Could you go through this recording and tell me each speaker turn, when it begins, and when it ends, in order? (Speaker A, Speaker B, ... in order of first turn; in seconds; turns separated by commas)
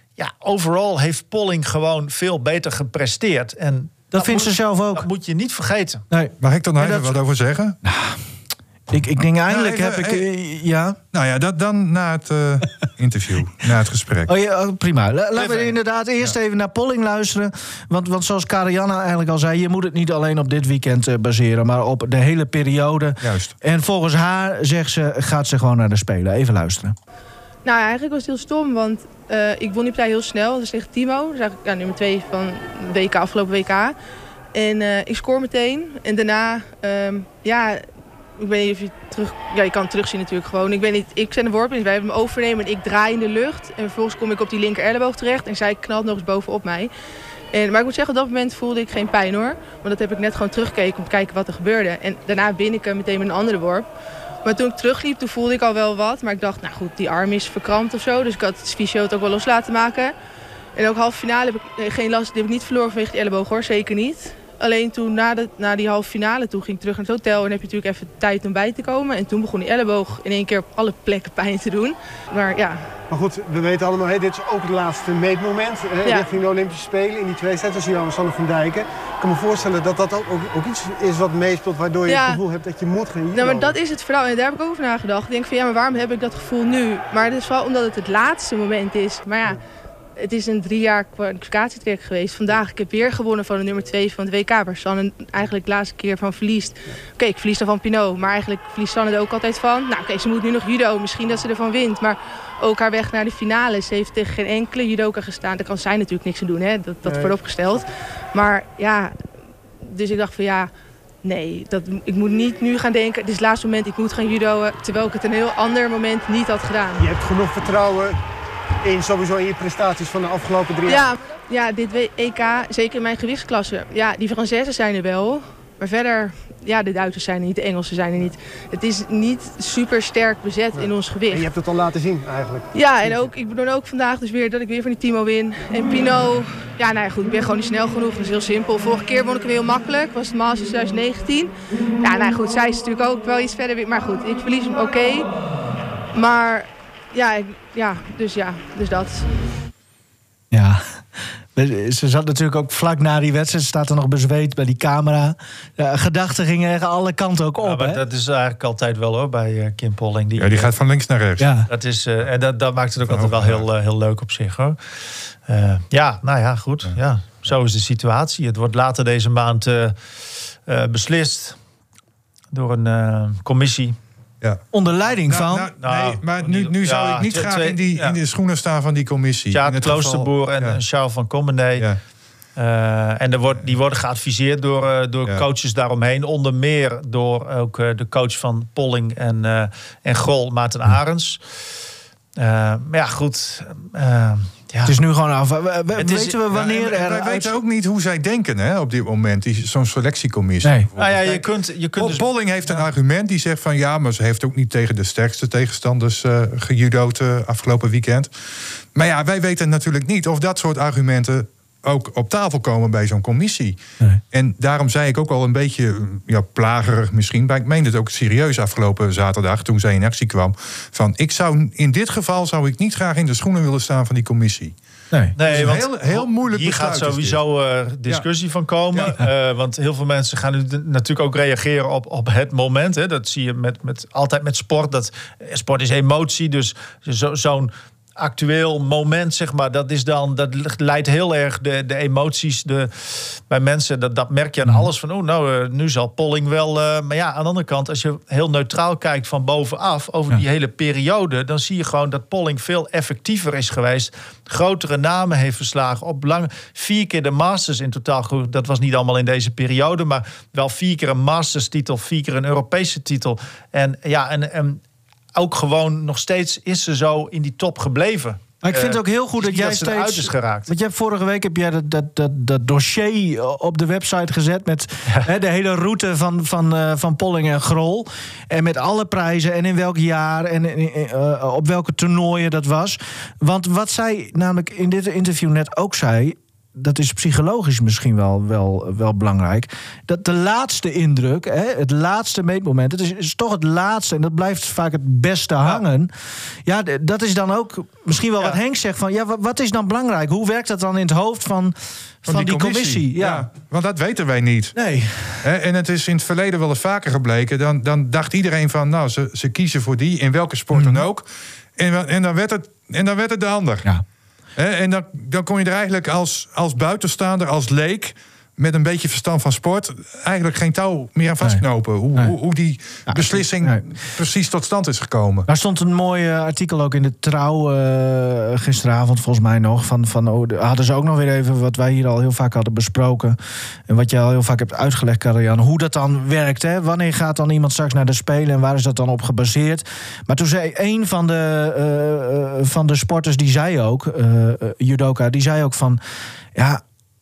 Speaker A: 0.2-6.0, Speaker B: 4.1-5.1, Speaker B: 6.1-7.2, Speaker C: 6.4-7.8, Speaker B: 7.8-8.2, Speaker B: 8.9-11.0, Speaker C: 9.5-10.2, Speaker C: 11.1-14.3, Speaker B: 14.3-26.9, Speaker A: 15.4-15.7, Speaker C: 23.2-23.5, Speaker D: 27.6-33.9, Speaker D: 34.5-37.8, Speaker D: 38.4-46.9, Speaker D: 47.5-53.9, Speaker D: 54.4-60.1, Speaker D: 60.8-72.8, Speaker E: 73.1-83.8, Speaker D: 82.1-82.4, Speaker D: 83.3-89.6, Speaker D: 90.2-109.1, Speaker E: 107.1-107.4, Speaker D: 109.8-110.7, Speaker D: 111.2-117.1, Speaker E: 117.0-118.2, Speaker E: 118.8-121.1, Speaker D: 120.9-131.5, Speaker E: 130.8-133.2, Speaker D: 132.7-145.3, Speaker D: 146.1-149.2, Speaker B: 150.5-158.0, Speaker A: 157.6-160.7, Speaker C: 160.4-161.5, Speaker B: 161.4-161.7, Speaker A: 161.7-164.8, Speaker C: 163.1-163.6, Speaker A: 165.5-169.9, Speaker A: 170.7-171.6, Speaker A: 172.5-174.0, Speaker B: 174.7-175.7, Speaker C: 175.3-180.8, Speaker A: 175.8-178.2, Speaker A: 179.5-181.8, Speaker A: 182.6-191.4, Speaker A: 192.4-194.9, Speaker B: 194.9-197.5, Speaker A: 196.0-196.5, Speaker C: 196.5-201.5, Speaker A: 201.0-202.8, Speaker C: 202.0-208.3, Speaker C: 208.9-213.8, Speaker C: 214.3-224.8, Speaker C: 225.3-227.4, Speaker A: 225.4-264.8, Speaker A: 265.4-270.7, Speaker B: 268.6-296.1, Speaker B: 296.6-303.5, Speaker C: 302.3-304.8, Speaker B: 304.8-305.5, Speaker C: 305.4-311.3, Speaker B: 310.7-311.0, Speaker C: 311.8-313.9, Speaker C: 314.6-325.5, Speaker B: 323.1-323.8, Speaker B: 325.5-333.4, Speaker B: 333.9-346.0, Speaker B: 346.6-346.8